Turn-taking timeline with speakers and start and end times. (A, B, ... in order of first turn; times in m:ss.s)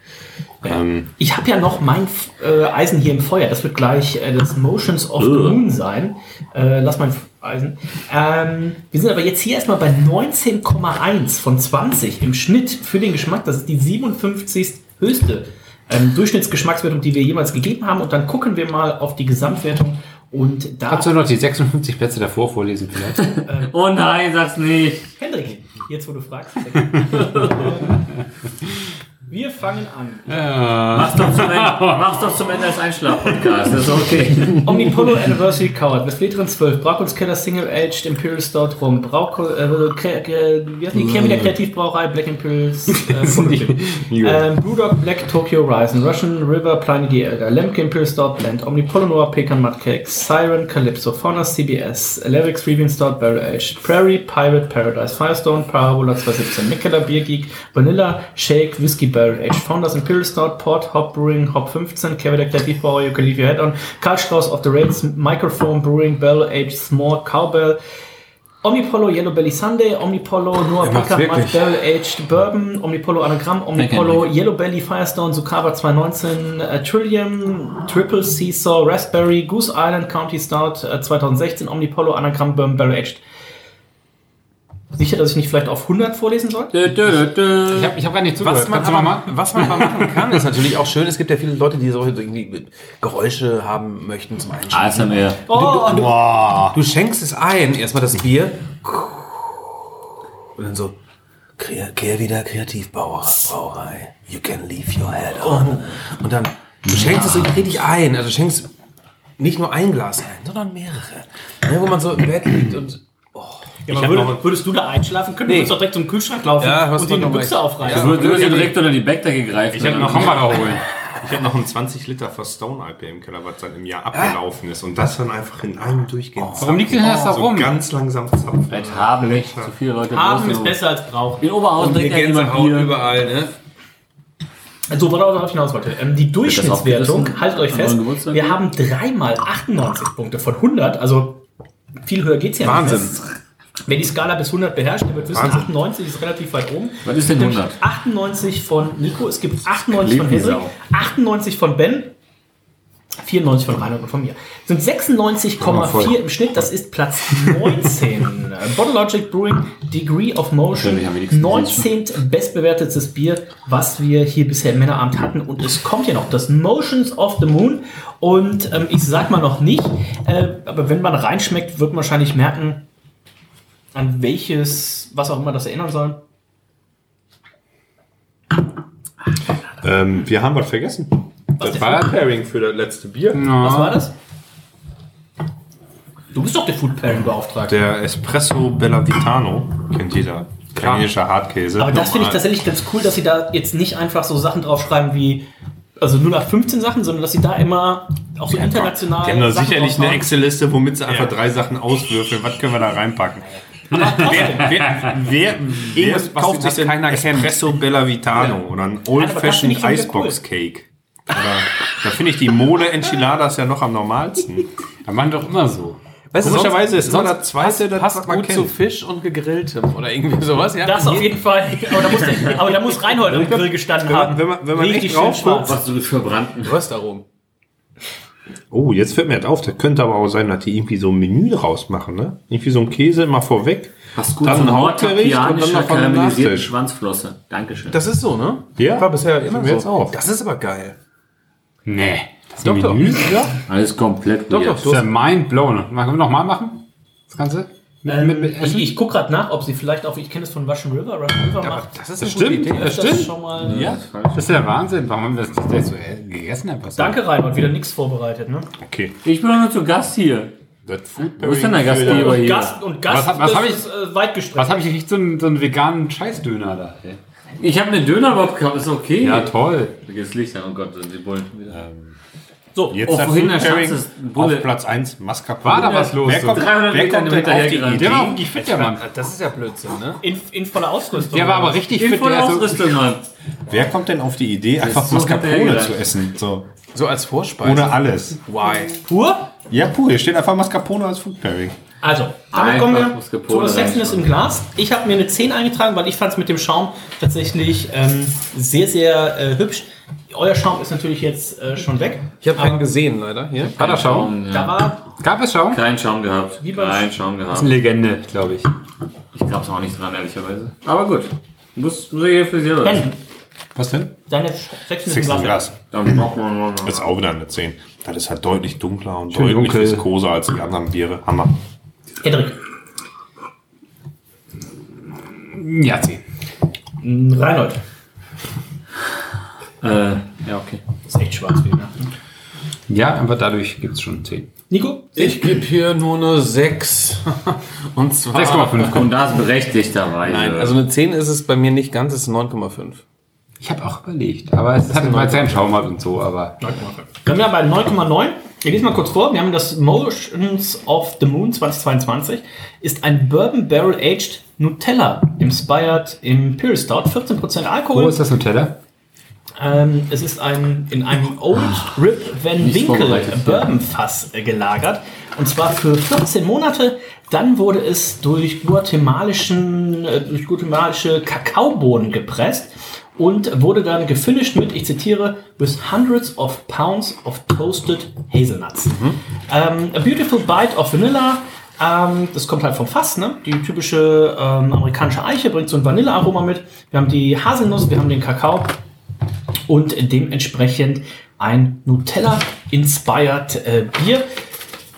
0:00.6-0:01.1 A
0:01.2-0:21.2 B
0:05.2-0:05.6 C
0:20.9-0:23.2 D
0:23.2-0:25.1 C
0:23.5-0:23.7 B
0:25.2-0:28.0 B
0:27.2-0:27.6 C
0:29.3-0:30.6 B
0:30.3-0:32.0 D
0:30.9-0:35.0 C
0:34.6-1:07.8 B
0:44.1-0:44.4 A
1:08.6-1:23.2 B
1:10.8-1:11.6 E
1:13.8-1:14.3 C
1:25.0-1:26.7 B
1:26.7-1:28.0 C
1:27.7-1:30.4 D
1:28.4-1:36.1 E
1:34.7-1:35.4 C
1:35.5-1:36.2 B
1:35.5-1:36.8 A
1:36.7-1:39.6 E
1:40.6-1:41.0 E
1:41.6-1:48.7 E
1:45.4-1:45.7 B
1:46.9-1:47.6 C
1:49.4-1:54.2 E
1:53.9-1:58.7 B
1:53.9-1:54.4 A
1:55.5-1:55.8 E
1:56.6-1:58.8 E
1:57.9-2:00.6 C
1:59.7-2:09.7 A
1:59.8-2:00.8 D
2:04.1-2:04.4 E
2:06.4-2:06.7 E
2:06.6-2:07.7 D
2:08.7-2:13.0 C
2:10.1-2:11.5 B
2:11.7-2:13.5 E
2:14.9-2:21.4 B
2:16.4-2:18.6 C
2:22.0-2:23.2 B
2:22.6-2:23.2 E
2:23.9-2:32.1 B
2:25.3-2:25.7 E
2:27.0-2:27.8 C
2:29.7-2:30.8 C
2:33.2-2:52.9 B
2:35.6-2:36.2 D
2:40.7-2:41.9 C
2:53.9-2:56.2 B
2:59.8-3:03.6 A
3:01.6-3:02.0 B
3:01.7-3:02.1 D
3:03.3-3:04.1 D
3:03.6-3:04.1 B
3:06.3-3:07.8 B
3:07.7-3:12.5 A
3:10.8-3:11.1 E
3:11.8-3:15.5 B
3:16.0-3:20.3 B
3:18.5-3:34.7 A
3:23.9-3:24.8 B
3:25.8-3:27.7 E
3:29.1-3:30.4 B
3:35.0-3:36.0 D
3:36.3-3:41.4 E
3:36.4-3:38.7 A
3:40.8-3:45.8 B
3:43.3-3:45.7 A
3:45.6-3:46.8 C
3:46.6-3:47.2 E
3:48.7-3:54.7 A
3:54.2-3:58.0 C
3:54.4-3:56.4 E
3:56.2-3:56.7 A
3:57.9-4:01.0 E
3:58.8-4:00.2 A
4:01.9-4:03.4 D
4:02.6-4:03.5 E
4:03.7-4:04.8 C
4:04.5-4:05.1 E
4:04.8-4:09.0 D
4:08.1-4:12.0 B
4:11.6-4:13.2 E
4:12.2-4:17.2 D
4:12.7-4:13.9 B
4:13.6-4:14.6 C
4:17.0-4:18.7 B
4:18.8-4:19.1 A
4:19.2-4:20.5 C
4:20.9-4:22.5 A
4:21.4-4:22.8 C
4:22.0-4:24.9 B
4:23.1-4:23.9 D
4:24.6-4:27.2 D
4:27.6-4:31.8 C
4:29.2-4:30.0 D
4:31.7-4:32.2 A
4:32.8-4:33.0 B
4:32.9-4:38.7 A
4:33.0-4:34.7 C
4:35.6-4:36.7 D
4:35.9-4:38.3 C
4:37.9-4:39.0 D
4:38.6-4:40.2 E
4:40.2-4:41.8 B
4:41.3-4:43.0 D
4:41.9-4:43.3 C
4:43.7-4:46.7 A
4:44.8-4:46.0 C
4:46.9-4:49.0 E
4:47.6-4:48.4 A
4:49.0-4:49.5 B
4:49.7-4:51.8 A
4:52.0-5:02.8 B
4:52.5-4:54.3 C
5:02.4-5:03.8 E
5:03.8-5:04.4 D
5:03.8-5:04.8 C
5:04.5-5:05.0 B
5:05.2-5:05.8 D
5:05.7-5:07.7 C
5:06.6-5:07.1 B
5:07.5-5:08.7 D
5:09.3-5:13.1 C
5:12.8-5:13.2 B
5:13.8-5:14.1 D
5:14.3-5:15.6 B
5:15.0-5:15.8 A
5:15.9-5:17.1 C
5:16.8-5:21.6 A
5:19.3-5:20.1 D
5:22.2-5:22.6 B
5:25.4-5:26.2 D
5:27.0-5:27.8 B
5:29.8-5:30.8 C
5:31.1-5:32.1 B
5:32.9-5:34.5 D
5:34.7-5:35.4 B
5:35.2-5:39.1 E
5:38.3-5:39.1 D
5:38.6-5:40.8 C
5:40.2-5:43.0 E
5:43.6-5:46.6 D
5:44.8-5:45.7 E
5:46.6-5:58.2 B
5:57.9-5:58.8 D
5:59.6-6:28.8 B
6:02.6-6:03.8 C
6:18.9-6:19.2 E
6:29.7-6:34.3 B